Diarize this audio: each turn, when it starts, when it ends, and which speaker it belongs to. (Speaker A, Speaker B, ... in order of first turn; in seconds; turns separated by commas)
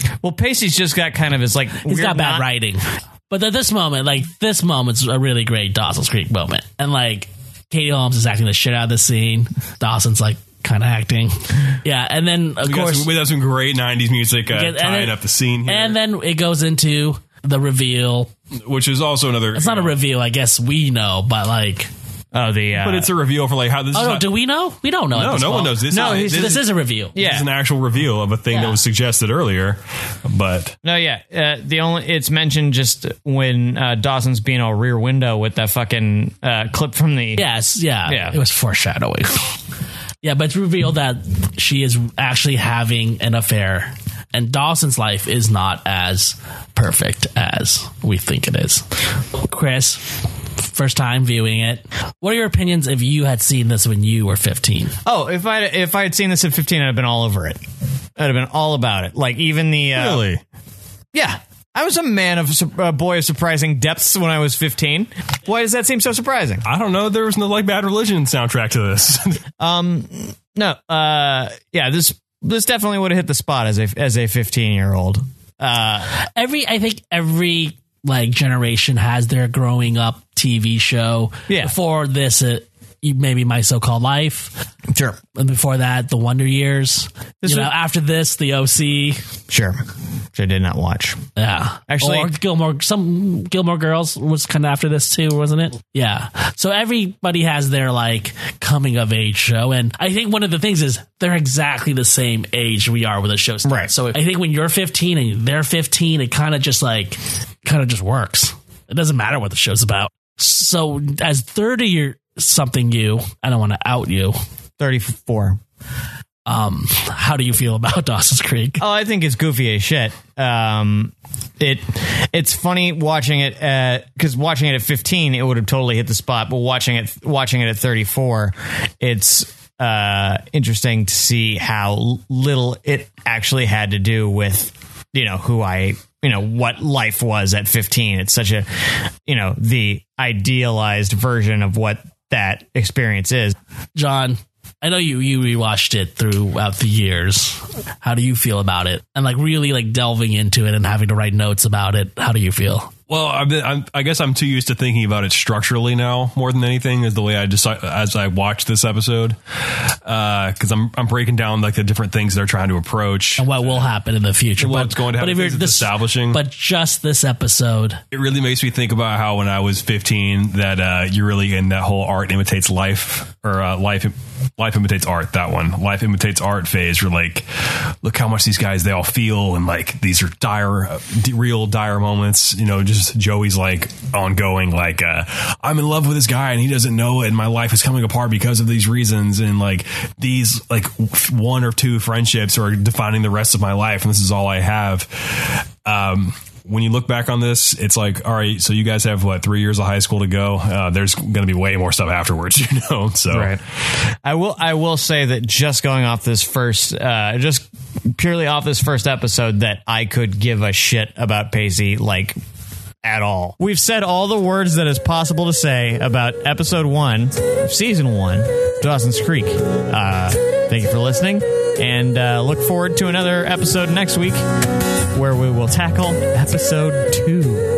Speaker A: 0.2-2.5, Speaker B: 1.8-13.1, Speaker C: 12.6-16.0, Speaker B: 14.5-18.3, Speaker C: 18.5-19.9, Speaker B: 19.5-21.9, Speaker A: 22.3-23.1, Speaker C: 22.8-24.3, Speaker B: 23.9-27.2, Speaker C: 25.1-30.8, Speaker A: 25.9-26.6, Speaker A: 27.1-27.5, Speaker B: 28.5-28.8, Speaker A: 30.8-37.4, Speaker B: 37.4-39.6, Speaker A: 38.1-38.4, Speaker B: 40.2-48.9, Speaker B: 49.4-50.0, Speaker B: 50.6-55.0, Speaker A: 55.0-57.6, Speaker A: 58.2-60.3, Speaker C: 60.0-60.4, Speaker A: 61.1-66.7, Speaker C: 66.6-69.4, Speaker A: 69.6-76.1, Speaker B: 76.3-84.5, Speaker A: 81.5-81.7, Speaker A: 84.9-85.2, Speaker B: 85.3-89.2, Speaker A: 87.4-87.7, Speaker A: 89.5-91.2, Speaker B: 91.3-114.4, Speaker A: 91.9-92.3, Speaker A: 103.6-103.9, Speaker A: 114.8-115.6, Speaker B: 116.5-118.8, Speaker A: 118.8-143.6, Speaker B: 143.9-152.9, Speaker C: 153.1-159.4, Speaker C: 159.9-163.9, Speaker B: 163.4-168.0, Speaker C: 164.6-166.4, Speaker C: 168.1-203.6, Speaker A: 203.3-203.6, Speaker A: 204.2-212.4, Speaker A: 213.0-224.4, Speaker A: 225.1-227.7